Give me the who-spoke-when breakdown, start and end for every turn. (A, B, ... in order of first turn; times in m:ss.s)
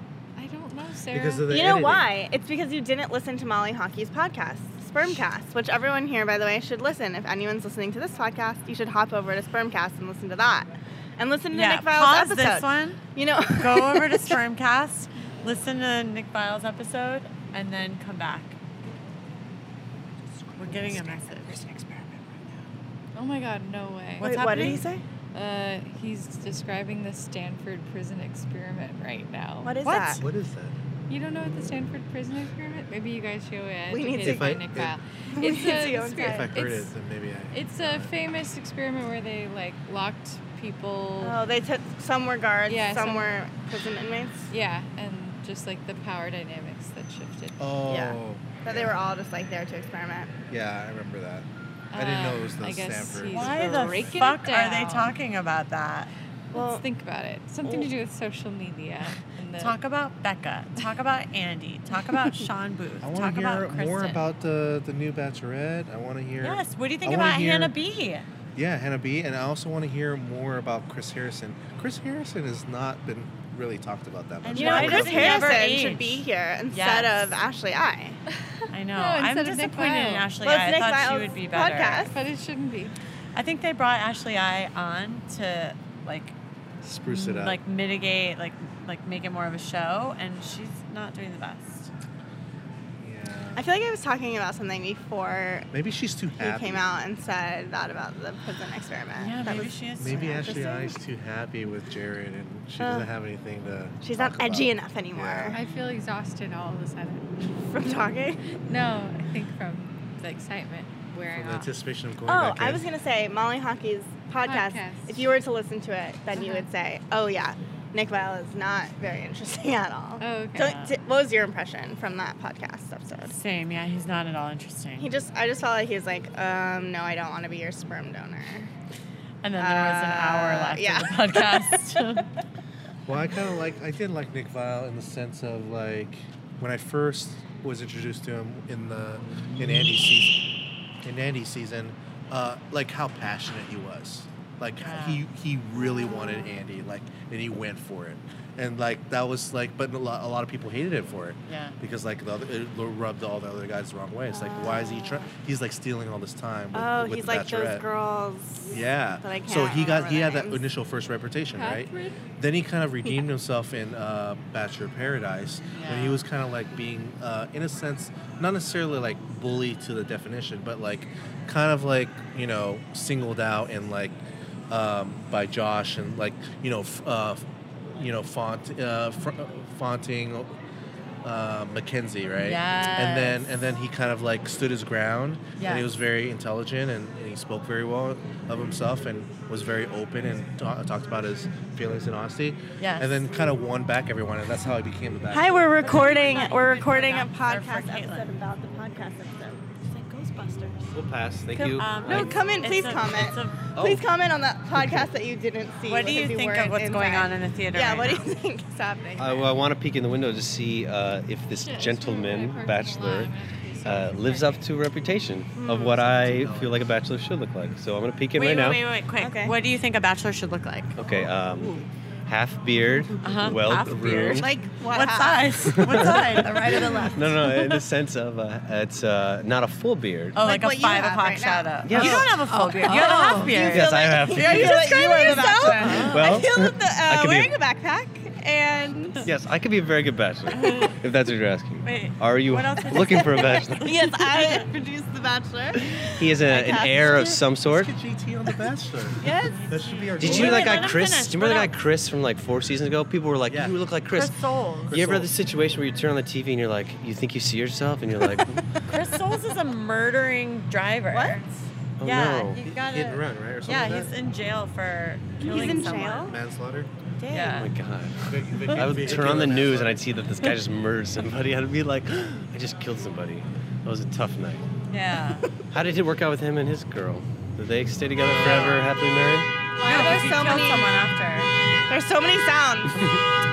0:00.4-0:01.5 A
0:01.1-0:02.1 B
0:01.5-0:14.3 C
0:11.5-0:13.0 D
0:13.5-0:18.6 D
0:20.6-0:22.0 D
0:23.1-0:24.4 A
0:24.2-0:24.9 D
0:24.2-0:25.0 C
0:25.3-0:29.8 A
0:29.6-0:30.2 C
0:29.8-0:30.2 D
0:30.2-0:30.8 B
0:31.1-0:36.9 A
0:33.9-0:34.6 C
0:34.2-0:35.0 B
0:35.3-0:36.5 C
0:36.2-0:38.1 B
0:37.5-0:41.4 A
0:41.2-0:44.5 C
0:42.6-0:43.4 A
0:44.5-0:47.6 A
0:47.6-0:49.0 B
0:47.9-0:50.3 C
0:50.5-0:54.2 B
0:51.9-0:55.2 A
0:53.3-0:56.1 D
0:56.5-0:59.8 A
0:56.5-0:56.8 C
0:57.6-0:57.9 C
0:59.6-1:04.2 D
1:03.0-1:07.7 B
1:06.4-1:08.3 D
1:08.6-1:15.6 B
1:14.4-1:17.4 D
1:14.5-1:18.2 C
1:18.7-1:22.1 D
1:19.0-1:20.3 A
1:20.4-1:22.2 C
1:22.1-1:23.0 A
1:23.3-1:26.3 D
1:26.8-1:27.6 B
1:27.1-1:31.9 D
1:33.0-1:33.7 B
1:33.6-1:35.7 C
1:35.7-1:36.8 B
1:36.4-1:40.9 C
1:39.2-1:40.8 D
1:39.5-1:45.6 B
1:42.8-1:43.1 C
1:44.0-1:45.6 C
1:45.5-1:47.3 A
1:45.6-1:45.9 D
1:47.7-1:48.4 C
1:48.7-1:51.7 A
1:51.3-1:52.8 B
1:52.2-2:03.4 C
1:54.4-1:55.3 A
1:56.3-1:56.7 A
2:00.2-2:00.7 A
2:00.6-2:01.0 D
2:03.2-2:05.1 D
2:05.0-2:08.7 C
2:09.4-2:12.3 D
2:09.6-2:11.8 C
2:13.1-2:20.4 B
2:21.0-2:37.8 B
2:24.8-2:25.2 D
2:31.5-2:31.8 D
2:34.3-2:35.3 C
2:36.7-2:40.7 C
2:38.7-3:00.5 B
2:41.5-2:42.2 A
2:45.7-2:46.2 D
3:01.2-3:15.9 B
3:02.4-3:03.4 D
3:05.6-3:05.9 D
3:12.8-3:13.2 D
3:15.3-3:19.8 C
3:15.8-3:18.3 D
3:19.8-3:20.9 D
3:20.9-3:22.3 E
3:21.5-3:29.5 C
3:21.8-3:23.6 D
3:23.8-3:24.1 E
3:24.7-3:25.1 E
3:25.8-3:28.4 D
3:29.2-3:38.8 E
3:31.5-3:34.7 A
3:35.6-3:36.0 C
3:35.8-3:36.9 B
3:38.3-3:41.8 D
3:39.2-3:39.6 C
3:41.0-3:44.6 E
3:43.2-3:47.2 D
3:43.4-3:44.0 A
3:43.8-3:47.5 C
3:45.7-3:50.5 E
3:50.3-3:54.7 D
3:50.4-3:59.3 C
3:51.8-3:57.6 E
3:52.8-3:53.4 A
3:55.8-3:56.4 D
3:59.2-4:04.3 E
4:00.5-4:01.0 D
4:01.8-4:04.6 D
4:03.1-4:07.3 C
4:06.0-4:07.9 E
4:07.6-4:11.0 B
4:09.2-4:09.6 C
4:09.4-4:11.8 D
4:10.2-4:18.7 E
4:13.5-4:13.8 B
4:14.1-4:15.0 D
4:14.9-4:15.4 B
4:18.9-4:26.4 D
4:21.1-4:21.4 C
4:22.0-4:22.6 E
4:22.6-4:24.1 B
4:25.4-4:26.4 C
4:25.6-4:26.9 B
4:27.2-4:27.7 D
4:27.3-4:27.7 A
4:27.3-4:34.6 E
4:28.2-4:30.2 B
4:34.9-4:35.4 D
4:35.7-4:39.5 E
4:38.3-4:38.8 B
4:38.4-4:38.7 C
4:39.8-4:43.0 C
4:39.8-4:41.0 D